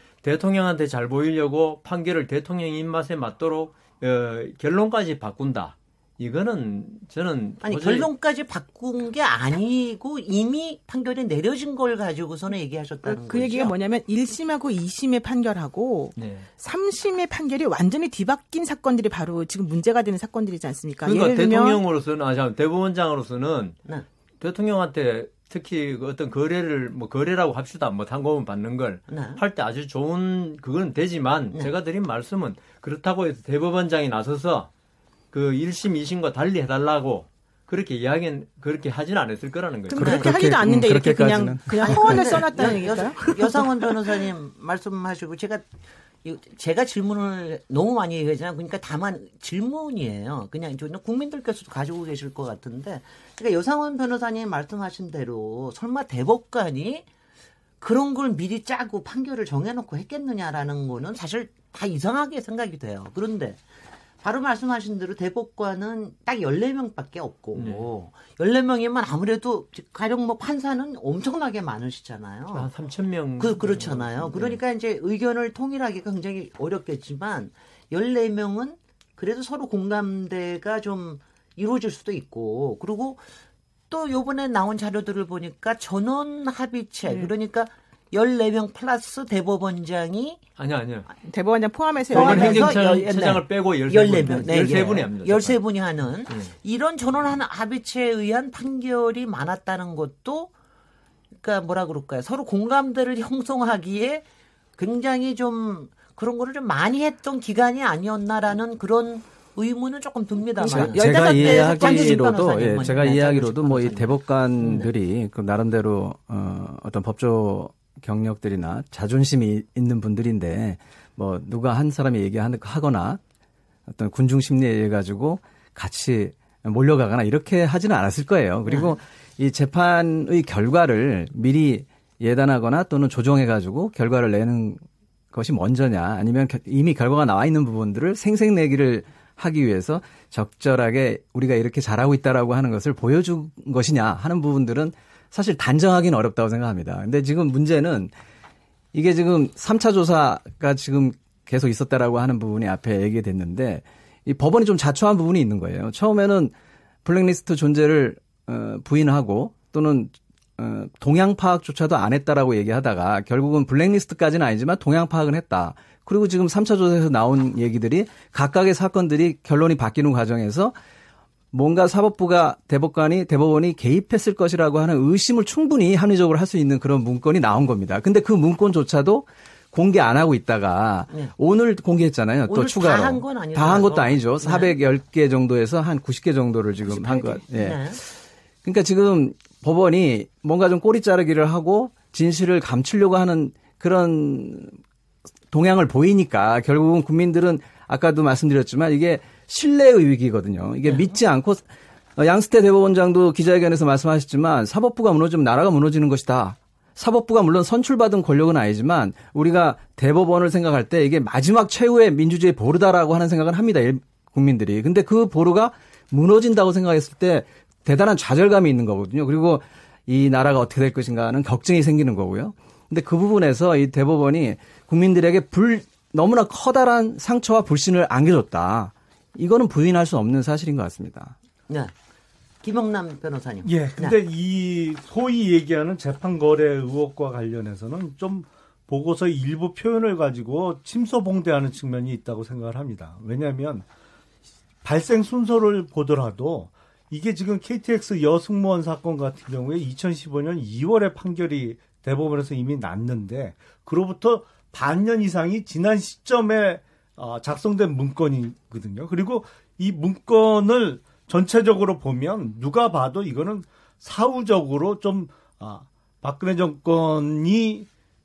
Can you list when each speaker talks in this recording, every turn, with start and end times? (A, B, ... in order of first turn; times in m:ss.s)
0:00.2-0:08.1 A
0:07.6-0:13.7 B
0:13.0-0:21.8 C
0:16.2-0:16.5 A
0:21.1-0:23.8 A
0:24.4-0:34.7 A
0:29.1-0:29.4 B
0:35.3-0:40.1 A
0:39.9-0:43.2 C
0:40.0-0:43.7 D
0:40.0-0:40.3 B
0:41.8-0:45.7 B
0:46.2-0:57.0 B
0:57.8-1:03.6 B
1:04.2-1:12.7 B
1:07.6-1:07.8 A
1:12.5-1:14.6 A
1:13.4-1:23.2 B
1:23.9-1:30.4 B
1:27.1-1:27.3 C
1:30.6-1:31.1 A
1:31.2-1:32.8 C
1:32.1-1:35.6 A
1:32.1-1:40.5 B
1:41.4-1:44.2 B
1:44.8-1:54.9 B
1:50.6-1:52.1 C
1:50.6-2:03.2 D
2:03.9-2:28.1 D
2:08.7-2:08.9 B
2:28.9-2:36.5 D
2:37.0-2:50.7 D
2:51.5-3:08.1 D
3:02.5-3:04.8 B
3:06.8-3:08.0 B
3:08.6-3:14.8 D
3:15.5-3:51.3 D
3:20.8-3:21.2 B
3:52.6-3:54.2 B
3:53.6-4:03.8 E
4:04.8-4:27.9 E